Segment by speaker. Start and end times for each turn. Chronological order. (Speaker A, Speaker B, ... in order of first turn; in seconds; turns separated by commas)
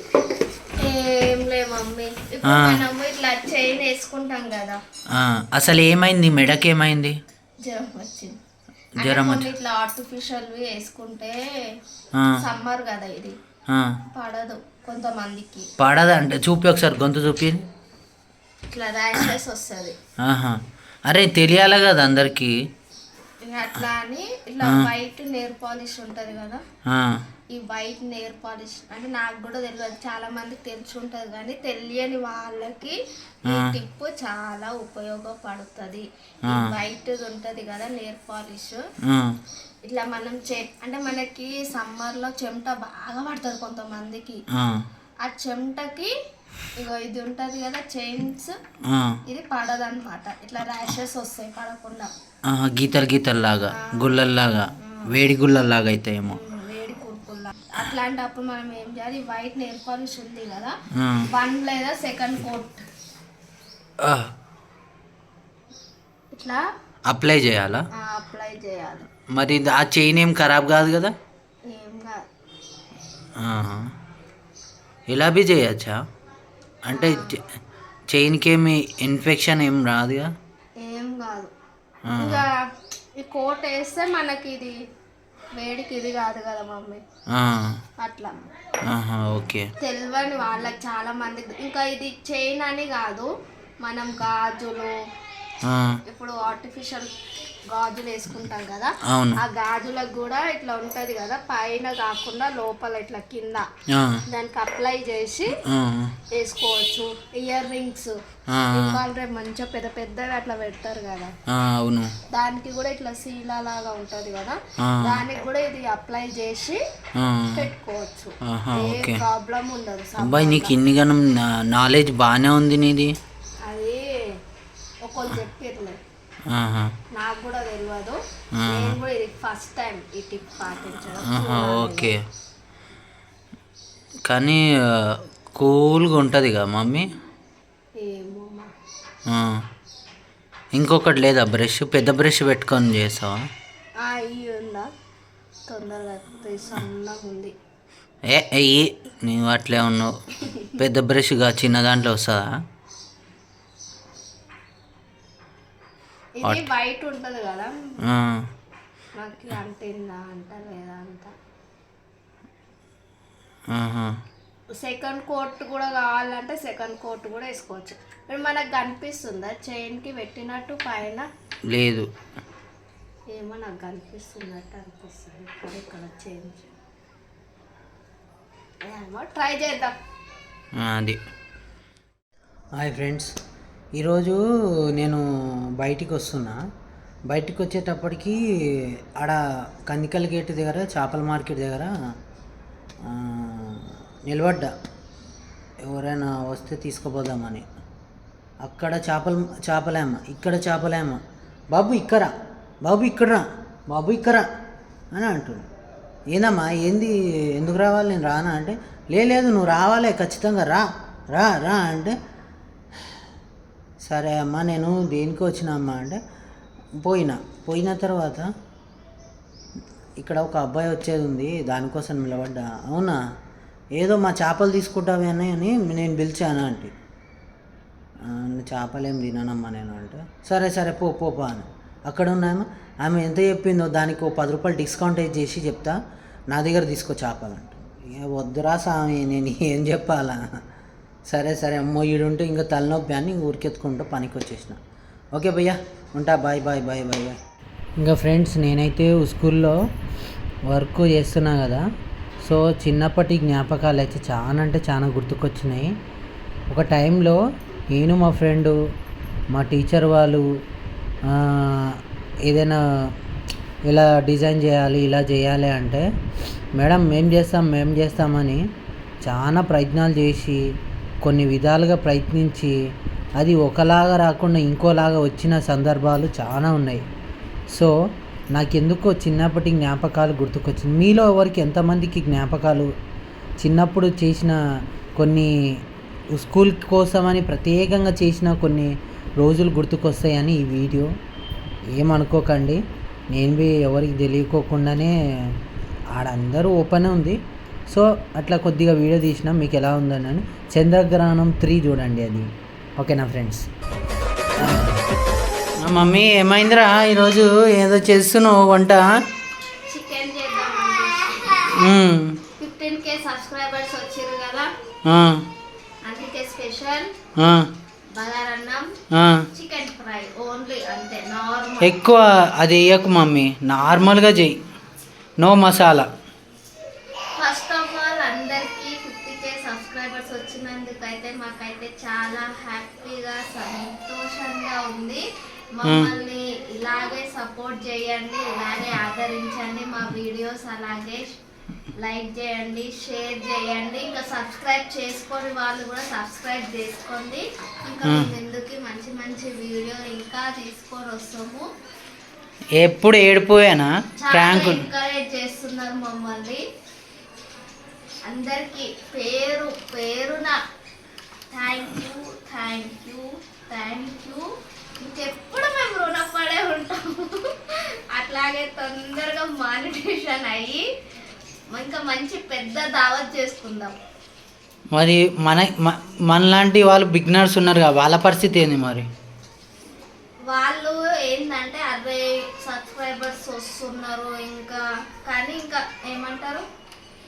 Speaker A: 0.8-4.8, Speaker B: 2.4-2.8, Speaker B: 5.1-7.2, Speaker A: 7.6-8.4, Speaker A: 9.0-11.4, Speaker B: 9.0-9.5, Speaker A: 12.4-13.4, Speaker B: 13.7-13.9, Speaker A: 14.1-15.7, Speaker B: 15.8-17.6, Speaker A: 18.7-19.9, Speaker B: 20.2-22.5, Speaker A: 23.4-26.6, Speaker B: 26.9-27.2, Speaker A: 27.5-38.8, Speaker B: 33.5-33.7, Speaker B: 39.0-39.4, Speaker A: 39.8-44.4, Speaker B: 44.5-44.9, Speaker A: 45.2-46.1, Speaker A: 46.8-48.5, Speaker B: 48.9-49.2, Speaker A: 49.3-52.1, Speaker B: 52.5-56.4, Speaker A: 53.7-54.1, Speaker A: 54.8-55.1, Speaker A: 56.3-60.7, Speaker B: 61.0-61.3, Speaker A: 61.3-62.8, Speaker B: 64.0-64.3, Speaker A: 66.3-66.6, Speaker B: 67.1-67.8, Speaker A: 68.0-69.0, Speaker B: 69.3-71.1, Speaker A: 71.7-72.2, Speaker B: 73.4-73.9, Speaker B: 75.1-76.0, Speaker B: 76.8-77.4, Speaker A: 76.9-77.4, Speaker B: 78.1-80.3, Speaker A: 80.8-81.5, Speaker B: 82.1-82.4, Speaker A: 82.2-82.5, Speaker A: 83.2-84.8, Speaker A: 85.6-87.0, Speaker B: 87.3-87.7, Speaker A: 88.0-88.3, Speaker B: 88.9-89.7, Speaker A: 89.8-93.3, Speaker A: 93.8-94.9, Speaker B: 95.6-96.0, Speaker A: 96.1-97.1, Speaker A: 97.7-103.6, Speaker B: 99.1-99.4, Speaker B: 103.9-104.2, Speaker A: 104.3-105.5, Speaker B: 105.7-106.1, Speaker A: 106.3-108.1, Speaker B: 108.5-109.0, Speaker A: 108.7-111.3, Speaker B: 111.5-112.1, Speaker A: 112.3-116.8, Speaker B: 114.8-115.2, Speaker B: 117.2-117.7, Speaker A: 117.5-120.7, Speaker B: 118.5-119.2, Speaker B: 120.2-123.1, Speaker A: 123.6-124.1, Speaker A: 125.0-126.0, Speaker B: 126.5-126.9, Speaker A: 127.1-132.1, Speaker B: 128.6-129.0, Speaker B: 131.2-132.2, Speaker B: 134.2-137.1, Speaker A: 138.0-138.7, Speaker B: 139.3-139.6, Speaker B: 140.7-143.3, Speaker A: 144.0-144.9, Speaker A: 145.7-147.5, Speaker B: 148.3-150.1, Speaker B: 150.8-152.5, Speaker A: 156.4-157.7, Speaker B: 156.4-156.7, Speaker B: 158.1-158.4, Speaker A: 159.2-161.3, Speaker B: 163.7-164.1, Speaker A: 164.7-171.3, Speaker B: 171.7-172.1, Speaker A: 173.3-176.7, Speaker A: 178.8-179.9, Speaker B: 180.8-181.2, Speaker B: 182.8-183.3, Speaker B: 183.9-184.4, Speaker B: 184.9-185.2, Speaker B: 185.8-186.6, Speaker B: 187.3-188.4, Speaker B: 189.2-191.9, Speaker B: 193.0-194.7, Speaker B: 195.8-197.6, Speaker B: 198.6-201.2, Speaker B: 201.7-202.3, Speaker B: 202.8-204.5, Speaker B: 205.1-205.6, Speaker B: 206.3-212.1, Speaker B: 214.0-216.2, Speaker B: 217.0-218.5, Speaker B: 220.2-223.2, Speaker B: 224.0-226.9, Speaker B: 228.2-236.0, Speaker B: 236.5-240.4, Speaker B: 241.3-244.8, Speaker B: 245.3-247.4, Speaker B: 248.0-249.8, Speaker B: 250.7-251.8, Speaker B: 252.4-255.9, Speaker B: 256.7-258.8, Speaker B: 259.5-260.4, Speaker B: 261.2-263.1, Speaker B: 263.9-266.1, Speaker B: 266.8-268.6, Speaker B: 269.2-270.6, Speaker B: 271.2-272.7, Speaker B: 273.4-277.0, Speaker B: 278.5-282.9, Speaker B: 283.6-284.6, Speaker B: 285.2-285.5, Speaker B: 286.3-291.1, Speaker B: 291.9-295.5, Speaker B: 296.1-303.7, Speaker B: 304.6-304.9, Speaker B: 305.8-309.1, Speaker A: 309.9-311.8, Speaker B: 311.7-312.4, Speaker A: 312.6-314.7, Speaker B: 315.1-315.4, Speaker A: 316.0-317.1, Speaker B: 317.4-317.7, Speaker A: 318.1-318.9, Speaker B: 319.1-319.4, Speaker A: 319.5-321.9, Speaker B: 321.8-324.6, Speaker B: 325.4-326.1, Speaker A: 327.4-335.2, Speaker A: 335.8-341.3, Speaker B: 335.8-336.1, Speaker A: 342.0-351.6, Speaker B: 348.0-348.3, Speaker B: 352.8-354.8, Speaker A: 354.2-356.6, Speaker A: 358.2-360.6, Speaker A: 361.5-364.4, Speaker A: 365.0-370.8, Speaker A: 371.7-373.9, Speaker B: 374.9-379.1, Speaker A: 380.5-386.6